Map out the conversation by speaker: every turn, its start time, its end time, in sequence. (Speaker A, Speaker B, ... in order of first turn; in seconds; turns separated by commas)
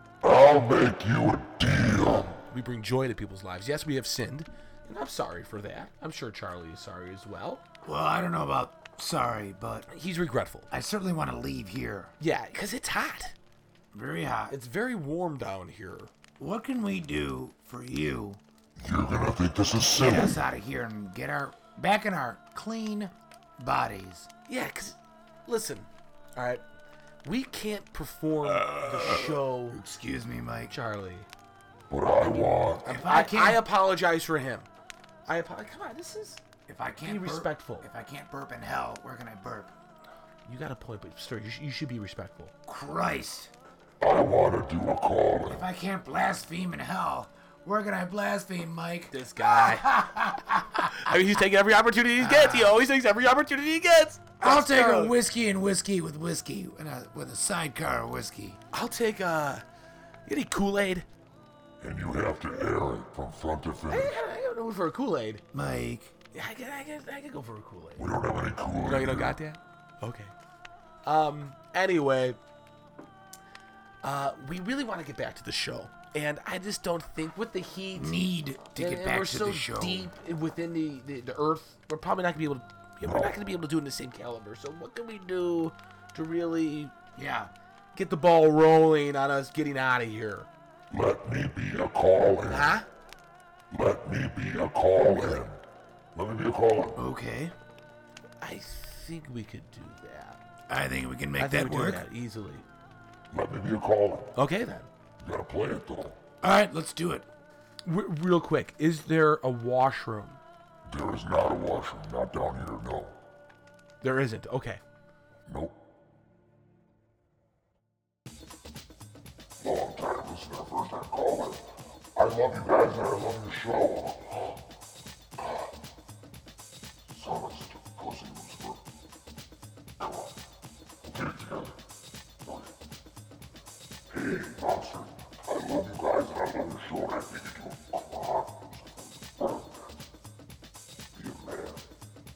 Speaker A: 0.2-2.3, Speaker B: 1.9-7.6, Speaker C: 7.8-9.9, Speaker B: 9.9-10.7, Speaker C: 10.7-12.1, Speaker B: 12.2-13.3, Speaker C: 13.9-14.6, Speaker B: 14.5-16.1, Speaker C: 16.4-18.4, Speaker A: 18.8-20.4, Speaker C: 20.0-24.3, Speaker B: 24.5-26.6, Speaker B: 27.2-29.8, Speaker C: 28.6-30.7, Speaker B: 30.7-31.3, Speaker A: 31.9-32.9, Speaker C: 32.8-33.6, Speaker B: 32.8-34.7, Speaker B: 35.3-36.4, Speaker C: 36.7-39.7, Speaker B: 37.0-37.9, Speaker B: 40.5-42.5, Speaker C: 42.7-43.5, Speaker A: 44.0-45.6, Speaker C: 45.5-50.9, Speaker B: 49.1-55.2, Speaker C: 52.2-52.8, Speaker C: 54.4-58.6, Speaker B: 58.7-59.6, Speaker B: 60.3-61.1, Speaker A: 61.8-64.2, Speaker B: 63.9-65.4, Speaker C: 65.5-66.1, Speaker B: 66.3-68.1, Speaker A: 68.0-69.4, Speaker B: 68.8-70.3, Speaker B: 71.0-72.4, Speaker B: 74.0-78.2, Speaker C: 78.0-80.1, Speaker B: 78.8-86.9, Speaker A: 83.0-83.3, Speaker C: 87.2-87.5, Speaker B: 87.9-90.5, Speaker A: 90.9-92.8, Speaker B: 92.5-92.9, Speaker A: 93.7-95.6, Speaker A: 96.2-97.0, Speaker C: 97.0-97.5, Speaker B: 98.4-100.4, Speaker C: 100.7-102.0, Speaker B: 101.4-102.7, Speaker A: 103.3-104.3, Speaker B: 104.3-104.9, Speaker A: 105.2-106.2, Speaker C: 106.4-107.3, Speaker B: 107.9-110.4, Speaker A: 110.9-113.2, Speaker B: 114.0-114.8, Speaker A: 115.5-115.7, Speaker A: 119.6-121.6, Speaker A: 122.2-124.6, Speaker A: 127.1-128.8, Speaker A: 130.0-130.3, Speaker A: 131.0-131.8, Speaker A: 134.1-139.8, Speaker A: 141.2-141.8